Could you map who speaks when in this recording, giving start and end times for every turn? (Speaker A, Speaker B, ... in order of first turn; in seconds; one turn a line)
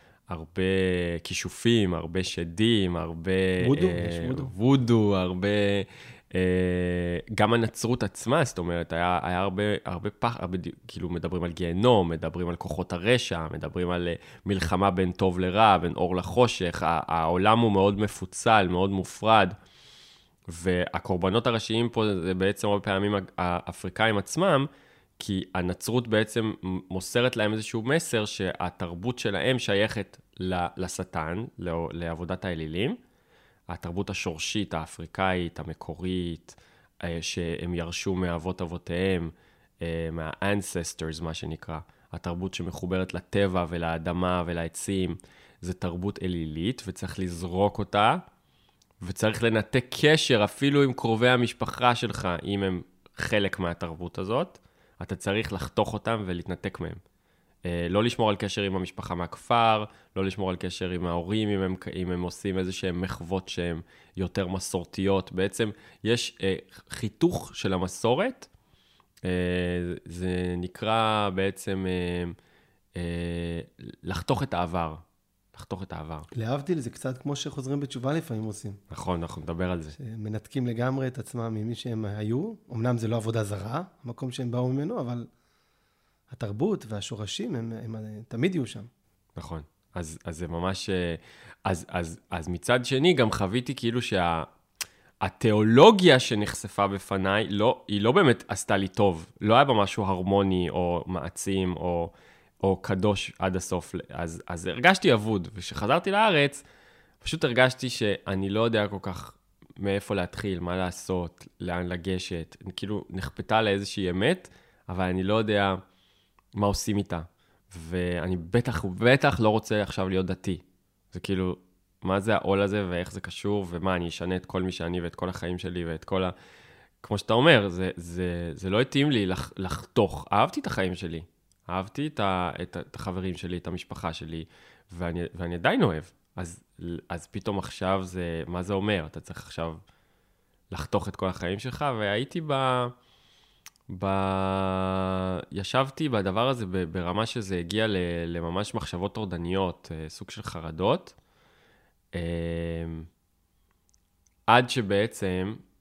Speaker A: 0.3-19.6
Speaker B: 3.6-4.5
Speaker A: 20.5-33.0
Speaker A: 33.7-48.2
Speaker A: 49.0-57.0
Speaker A: 57.6-68.5
Speaker A: 69.2-72.3
Speaker A: 72.9-75.0
Speaker A: 75.5-76.3
Speaker B: 76.3-78.8
Speaker A: 78.9-80.0
Speaker B: 79.9-85.3
Speaker B: 86.3-88.9
Speaker A: 89.3-94.5
Speaker A: 95.2-106.6
Speaker A: 107.2-115.8
Speaker A: 116.5-126.3
Speaker A: 127.0-139.8
Speaker A: 140.7-142.9
Speaker A: 143.9-151.2
Speaker A: 152.1-153.1
Speaker A: 154.5-155.6